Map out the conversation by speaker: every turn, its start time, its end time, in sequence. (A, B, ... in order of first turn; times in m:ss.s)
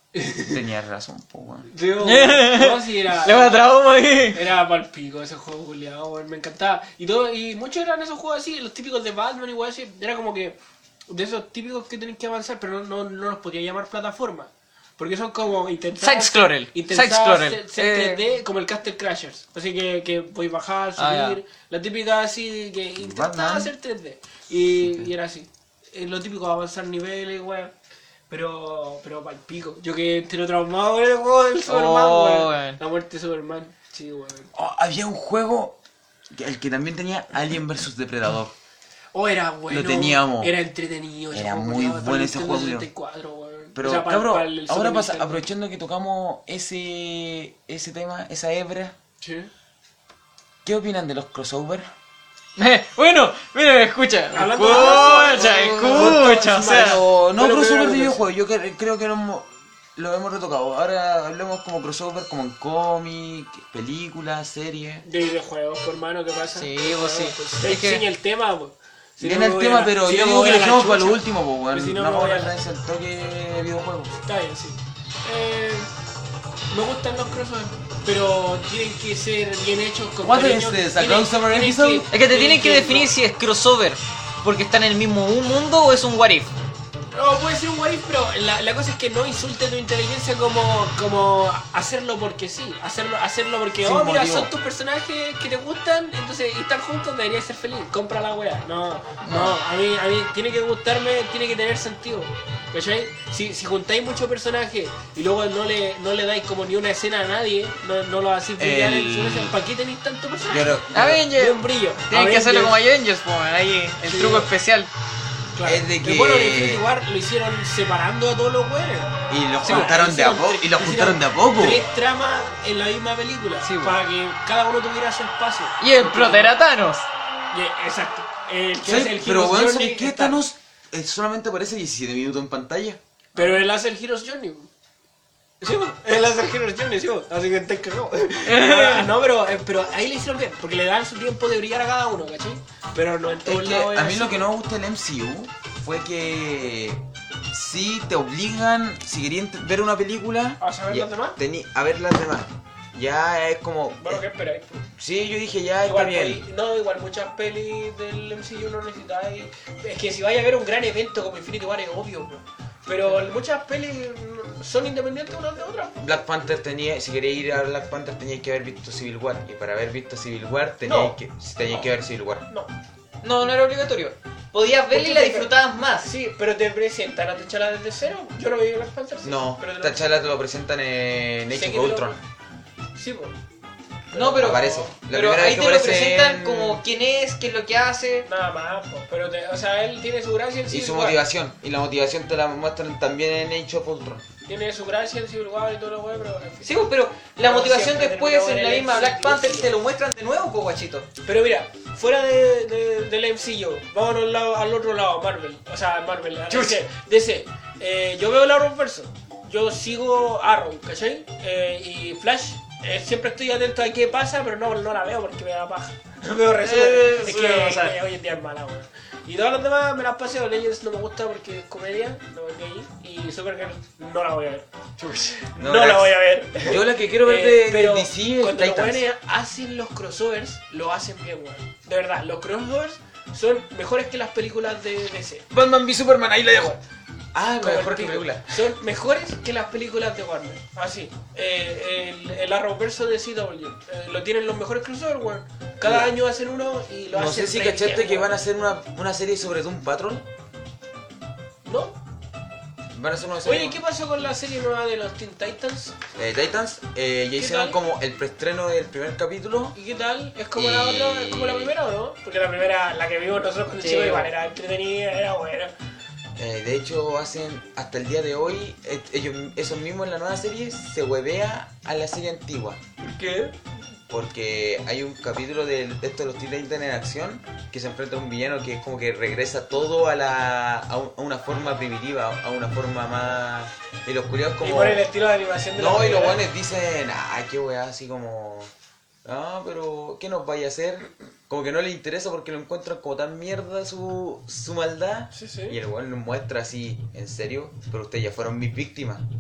0:00.1-0:00.6 A
0:00.4-0:01.7 B
0:01.7-0:03.7 A
0:02.0-0:04.4 C
0:04.3-0:10.6 A
0:11.1-0:27.7 A
0:16.0-0:18.2 C
0:21.0-0:21.4 C
0:23.0-0:23.7 B
0:24.8-0:25.1 B
0:28.3-0:34.5 A
0:31.6-0:32.8 C
0:34.5-0:35.8 B
0:36.3-0:38.5 B
0:39.1-0:45.4 A
0:39.7-0:40.5 B
0:41.3-0:42.9 B
0:43.7-0:49.0 B
0:49.2-0:49.5 A
0:50.6-0:51.9 B
0:52.6-0:57.0 C
0:54.3-0:58.2 A
0:54.6-1:05.0 B
1:05.0-1:12.5 A
1:06.5-1:08.0 C
1:09.2-1:14.1 B
1:14.2-1:15.9 A
1:16.7-1:23.1 A
1:20.2-1:22.1 B
1:22.1-1:26.5 C
1:27.1-1:52.8 A
1:33.8-1:34.5 B
1:39.2-1:39.5 B
1:48.6-1:49.6 B
1:50.5-1:51.2 B
1:50.9-1:54.9 C
1:54.0-1:54.5 A
1:55.5-2:06.5 A
1:55.6-1:56.8 B
1:59.3-2:01.8 B
1:59.6-1:59.9 C
2:03.6-2:03.9 C
2:05.8-2:07.0 C
2:07.5-2:10.4 A
2:08.8-2:13.0 B
2:13.3-2:14.7 A
2:15.6-2:24.5 A
2:18.4-2:19.1 C
2:23.4-2:34.2 B
2:30.6-2:31.4 A
2:34.0-2:34.8 A
2:35.0-2:36.4 B
2:35.8-2:46.2 A
2:46.0-2:52.4 B
2:50.8-2:51.9 A
2:53.2-2:56.1 C
2:54.9-3:00.2 A
2:59.2-3:02.2 B
3:01.5-3:02.2 A
3:02.9-3:03.3 A
3:04.1-3:04.8 A
3:04.1-3:08.3 C
3:04.4-3:06.8 B
3:08.2-3:11.2 A
3:10.7-3:14.2 B
3:14.5-3:19.7 A
3:16.6-3:21.0 C
3:21.2-3:44.7 A
3:26.5-3:26.8 C
3:36.6-3:38.0 C
3:45.0-3:45.4 C
3:45.3-3:55.5 A
3:45.6-3:49.0 B
3:55.5-3:56.8 B
3:56.5-3:56.8 A
3:57.3-3:58.6 B
3:57.6-4:08.5 A
4:05.8-4:06.1 B
4:07.1-4:10.2 B
4:11.6-4:12.0 A
4:12.9-4:13.8 B
4:13.4-4:16.0 A
4:16.2-4:19.8 B
4:17.4-4:17.8 A
4:19.7-4:25.7 A
4:20.5-4:21.7 B
4:23.8-4:24.3 C
4:26.4-4:32.8 B
4:33.0-4:33.5 A
4:34.1-4:45.0 B
4:44.6-4:46.4 A
4:45.7-4:48.7 B
4:49.2-4:59.2 B
4:55.3-4:55.8 A